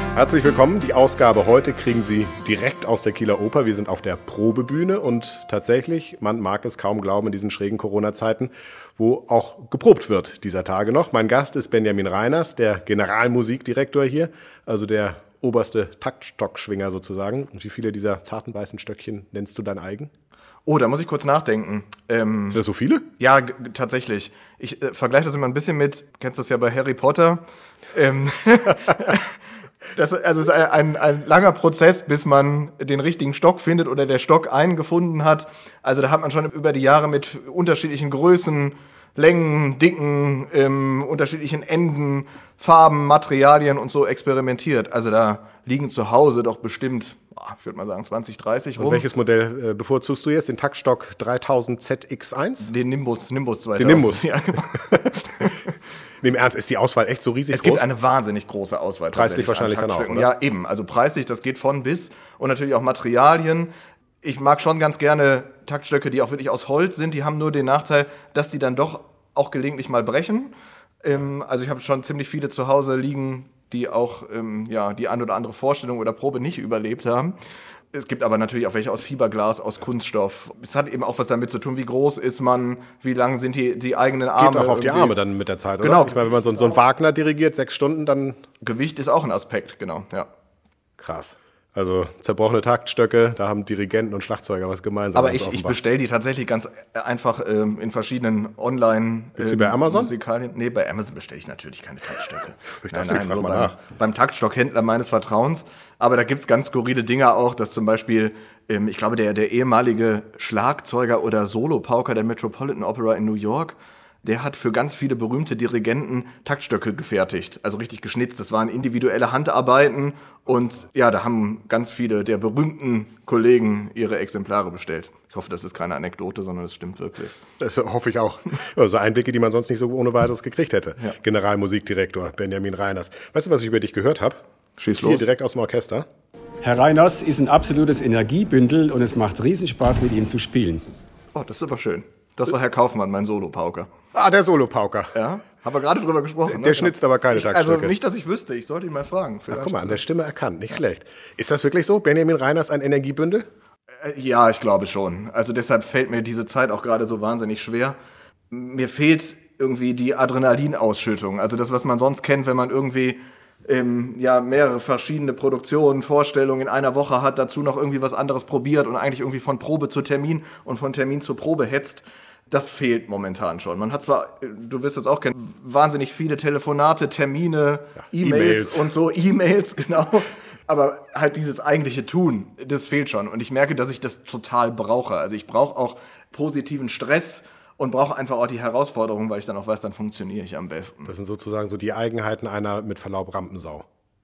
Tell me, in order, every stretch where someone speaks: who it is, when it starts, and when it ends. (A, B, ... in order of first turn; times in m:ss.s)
0:00.1-0:20.1 A
0:20.6-0:22.6 B
0:22.5-0:23.0 A
0:23.2-0:29.3 B
0:29.9-0:49.0 B
0:48.8-0:52.7 A
0:52.6-0:55.6 B
0:53.8-0:54.3 A
0:56.2-0:57.8 A
0:57.5-1:03.7 B
0:59.1-1:00.3 A
1:04.2-1:10.5 B
1:11.0-1:17.3 B
1:17.9-1:25.1 B
1:24.4-1:28.4 A
1:25.8-1:26.4 B
1:28.6-1:30.3 B
1:31.0-1:35.8 A
1:35.1-2:07.4 B
1:39.4-1:40.1 A
1:42.8-1:43.8 A
2:07.6-2:14.4 A
2:14.8-2:15.2 B
2:15.0-2:16.0 A
2:16.6-2:20.8 C
2:21.3-2:23.9 B
2:24.1-2:25.1 A
2:25.1-2:30.0 B
2:26.5-2:27.9 A
2:29.5-2:33.5 A
2:34.0-2:38.0 B
2:38.5-3:11.1 B
2:58.0-2:58.9 A
3:11.1-3:13.8 A